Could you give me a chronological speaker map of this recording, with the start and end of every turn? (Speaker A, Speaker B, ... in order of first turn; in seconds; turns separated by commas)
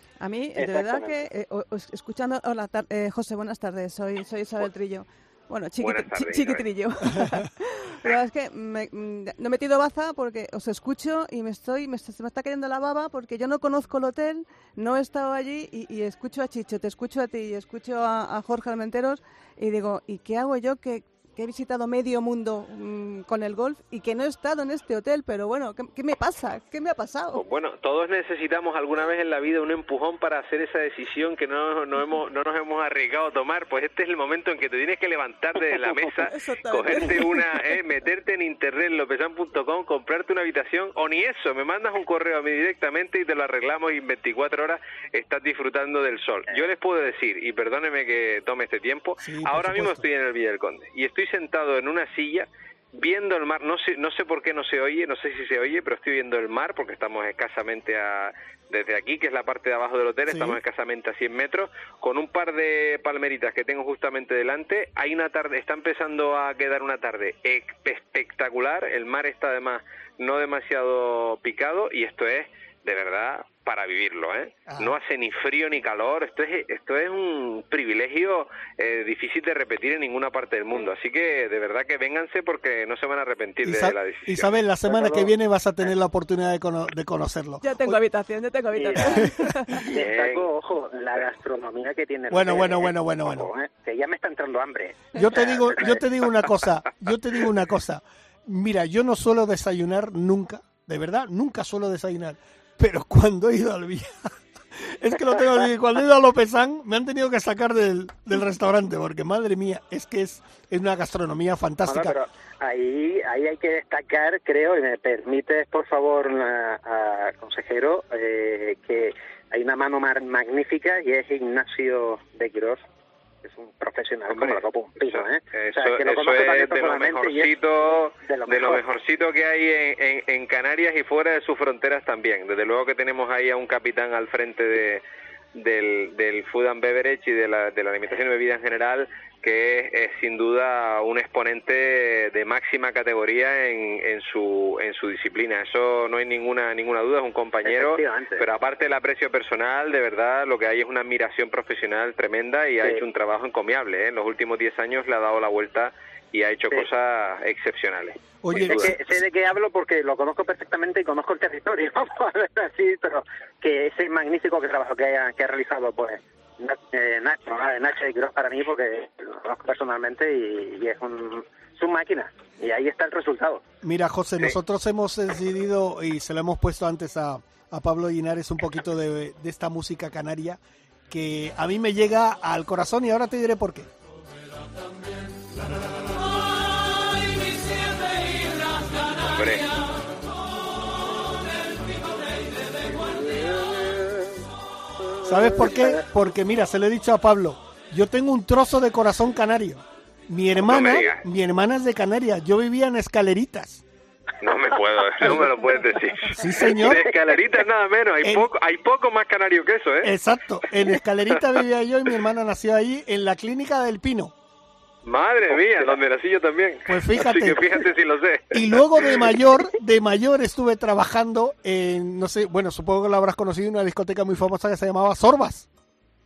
Speaker A: 0.2-27.4, Speaker B: 0.6-1.2, Speaker C: 5.8-6.7, Speaker C: 27.3-84.5, Speaker A: 35.9-37.6, Speaker D: 49.2-50.1, Speaker D: 60.3-60.6, Speaker D: 74.7-75.0, Speaker D: 83.6-88.0, Speaker B: 84.9-85.3, Speaker A: 87.6-89.8, Speaker B: 88.8-96.0, Speaker D: 89.1-90.0, Speaker C: 90.0-90.5, Speaker D: 92.3-93.5, Speaker D: 95.2-112.2, Speaker B: 111.8-122.8, Speaker B: 123.4-127.5, Speaker C: 124.3-135.0, Speaker B: 128.2-128.8, Speaker C: 135.6-158.9, Speaker B: 147.6-148.5, Speaker D: 158.4-159.0, Speaker B: 158.5-173.6, Speaker D: 173.8-183.9, Speaker C: 189.3-189.7, Speaker D: 195.2-203.8, Speaker C: 200.6-201.2, Speaker C: 204.4-210.2, Speaker D: 206.3-207.1, Speaker D: 208.2-208.5, Speaker D: 210.0-214.3, Speaker C: 210.8-211.6, Speaker C: 215.0-219.3, Speaker B: 215.6-215.9, Speaker D: 216.9-217.7, Speaker D: 218.5-225.7